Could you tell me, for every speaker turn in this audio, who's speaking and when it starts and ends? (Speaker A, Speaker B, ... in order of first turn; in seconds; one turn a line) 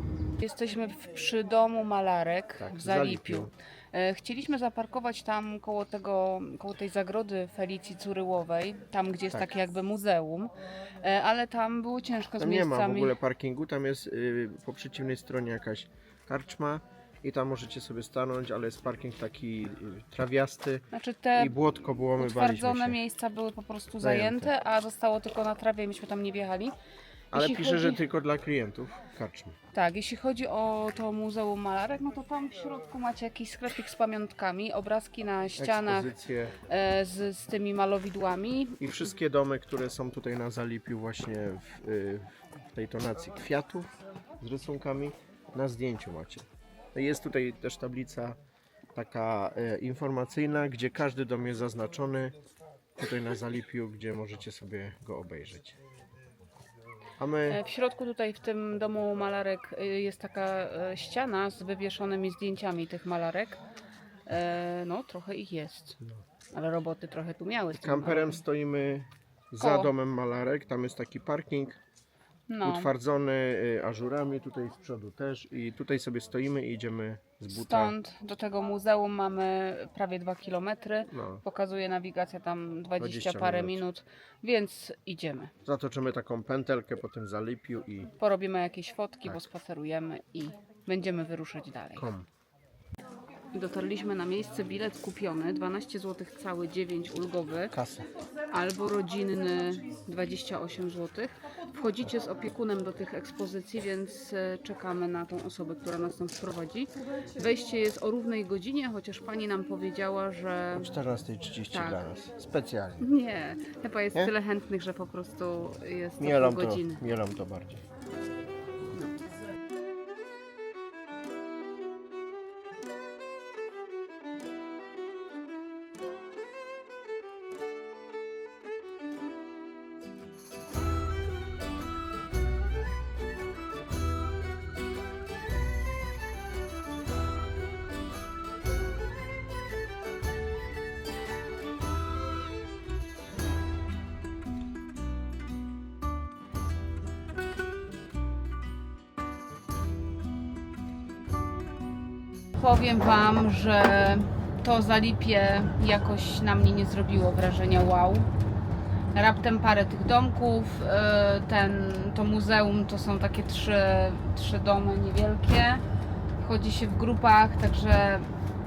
Speaker A: 0.4-13.2
Speaker B: 2.6-3.5
Speaker B: 12.4-23.0
Speaker A: 20.9-26.7
Speaker B: 24.0-24.5
Speaker B: 27.3-29.6
Speaker A: 27.3-28.0
Speaker A: 29.7-38.8
Speaker B: 35.6-36.6
Speaker B: 38.8-43.9
Speaker B: 44.4-48.4
Speaker B: 49.0-52.4
Speaker B: 53.0-55.8
Speaker B: 57.2-57.6
Speaker A: 57.5-63.6
Speaker A: 64.3-66.0
Speaker A: 66.5-68.4
Speaker B: 67.7-71.8
Speaker A: 69.6-69.9
Speaker A: 72.5-72.9
Speaker B: 72.6-78.0
Speaker A: 77.5-85.5
Speaker B: 81.1-81.4
Speaker B: 83.0-83.8
Speaker B: 85.7-88.1
Speaker A: 88.2-92.1
Speaker B: 92.0-92.3
Speaker A: 93.5-97.7
Speaker B: 97.7-98.1
Speaker A: 98.5-110.9
Speaker B: 110.7-113.1
Speaker A: 111.7-112.1
Speaker A: 113.0-117.0
Speaker B: 116.2-117.8
Speaker A: 152.6-158.3
Speaker A: 159.1-165.8
Speaker A: 166.4-168.3